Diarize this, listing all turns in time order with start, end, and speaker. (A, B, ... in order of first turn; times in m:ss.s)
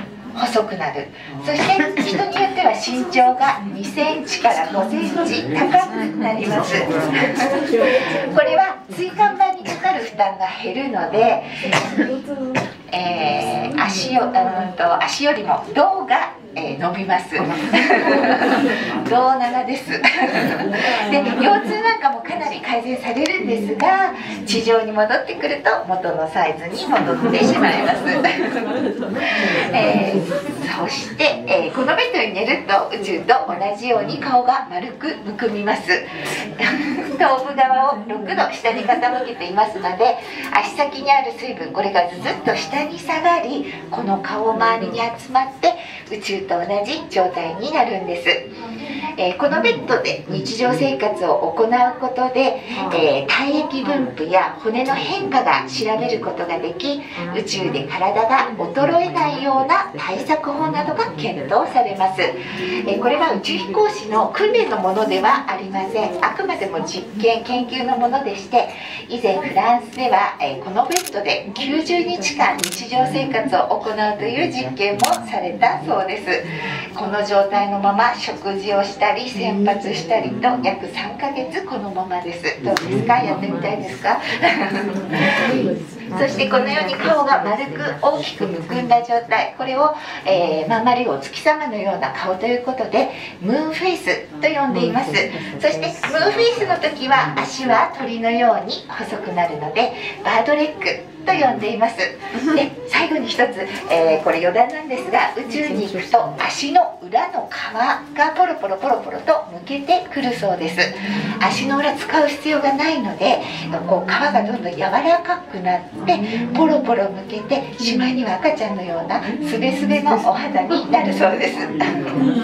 0:00.4-0:12.0 A
0:12.9-0:28.6 A
0:29.6-0:48.4 A
0:49.2-1:02.4 A
1:02.9-1:25.6 A
1:26.1-2:02.0 A